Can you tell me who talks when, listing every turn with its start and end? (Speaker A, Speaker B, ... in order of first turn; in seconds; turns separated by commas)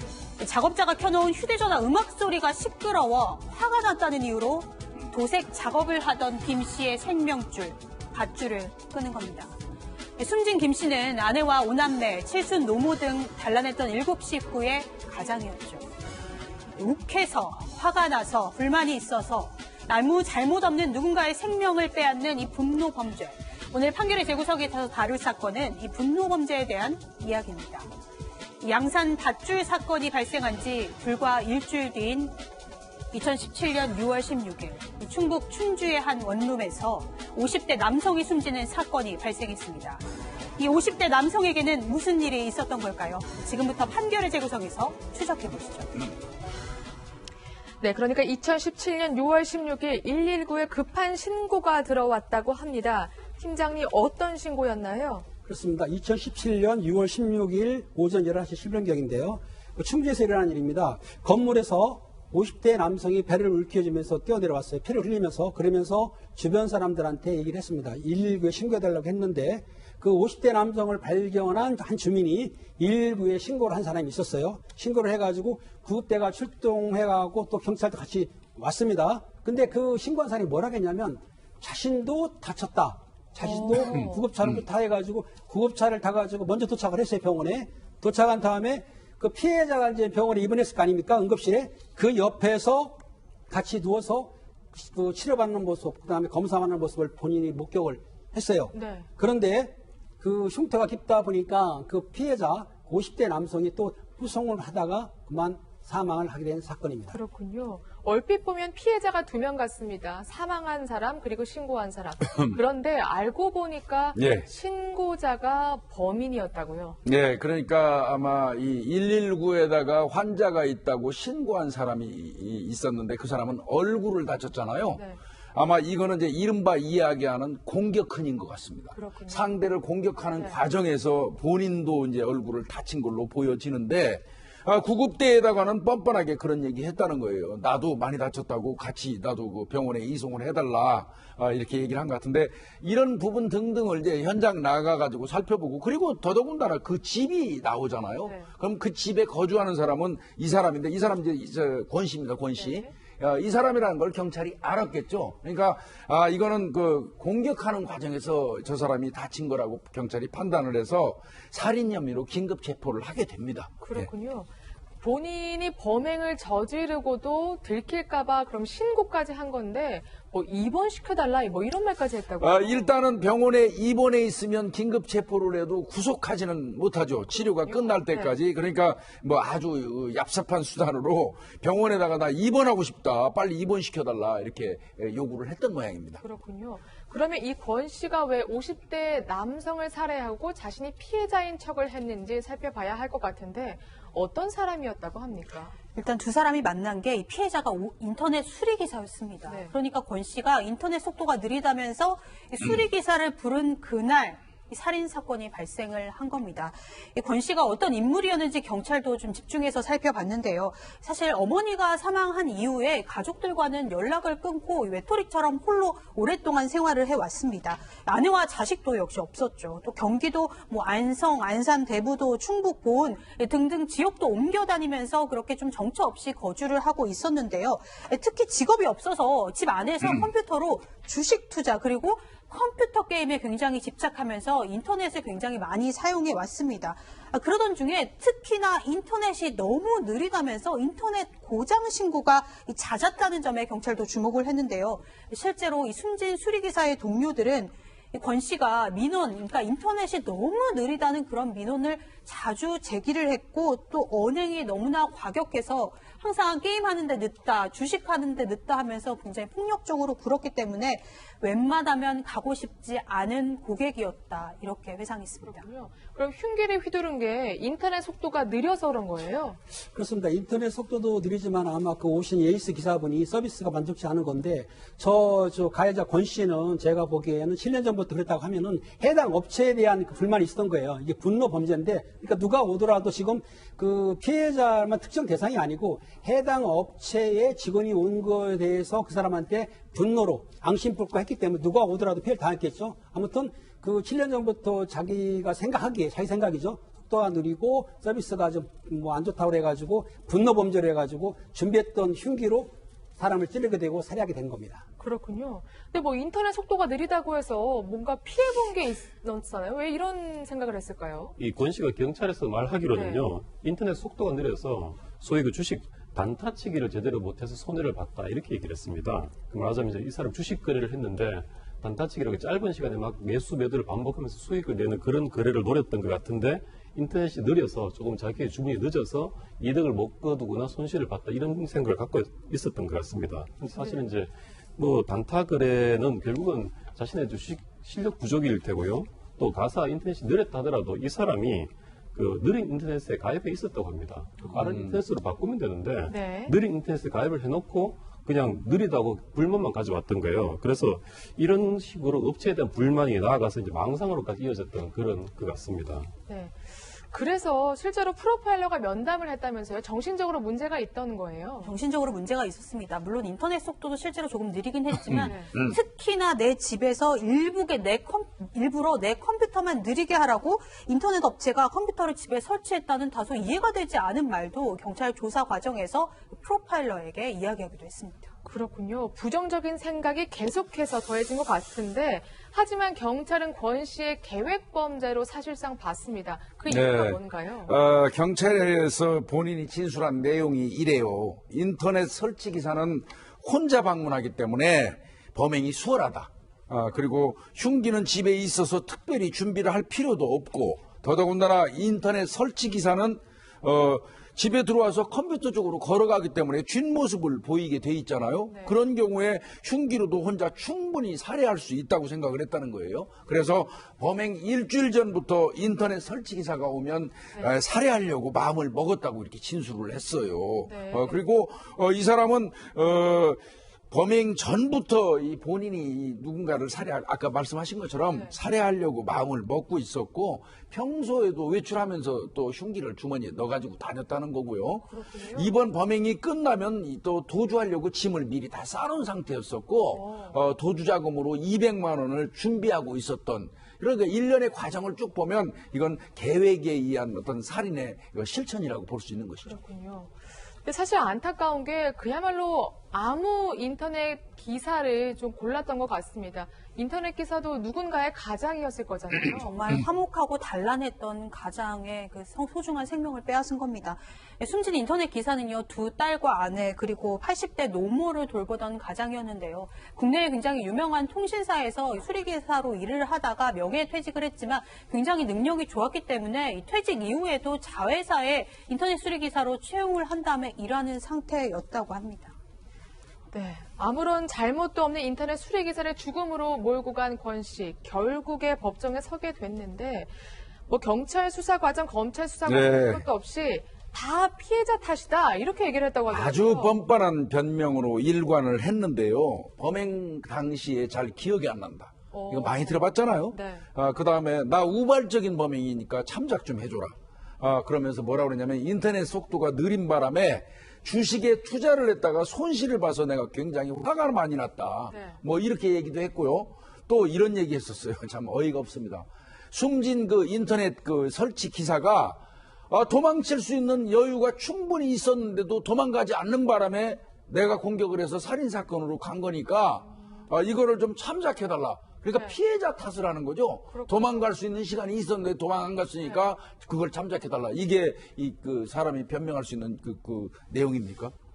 Speaker A: 0.4-9.5, Speaker A: 10.2-15.8, Speaker A: 16.8-27.9, Speaker A: 28.6-32.4, Speaker A: 33.1-40.0, Speaker A: 40.6-46.1, Speaker B: 47.8-55.2, Speaker C: 55.4-93.0, Speaker B: 83.4-84.2, Speaker C: 93.5-107.2, Speaker B: 98.7-99.0, Speaker B: 107.1-117.0, Speaker D: 114.1-114.5, Speaker D: 117.0-125.0, Speaker D: 125.5-164.1, Speaker B: 128.9-129.5, Speaker B: 152.5-152.9, Speaker B: 163.8-164.5, Speaker B: 165.0-172.9, Speaker D: 172.4-186.2, Speaker B: 177.7-178.3, Speaker B: 186.2-195.8, Speaker A: 195.9-265.6, Speaker B: 199.5-199.7, Speaker B: 265.4-269.6, Speaker C: 269.9-304.8, Speaker B: 305.0-311.3, Speaker E: 311.4-356.1, Speaker B: 312.9-313.2, Speaker D: 344.4-345.0, Speaker B: 346.1-346.5, Speaker B: 356.3-361.7, Speaker A: 361.6-378.3, Speaker D: 365.1-365.7, Speaker B: 365.2-365.5, Speaker B: 378.4-387.7, Speaker D: 386.7-449.6, Speaker B: 408.5-408.7, Speaker B: 420.7-421.2, Speaker B: 428.1-428.3, Speaker B: 434.9-435.5, Speaker B: 439.9-440.3, Speaker B: 449.4-459.5, Speaker A: 459.3-482.3, Speaker B: 483.3-490.1, Speaker B: 490.7-496.8, Speaker D: 492.4-493.1, Speaker D: 496.1-541.1, Speaker B: 502.1-503.6, Speaker B: 514.9-515.2, Speaker B: 532.1-532.4, Speaker B: 533.7-534.2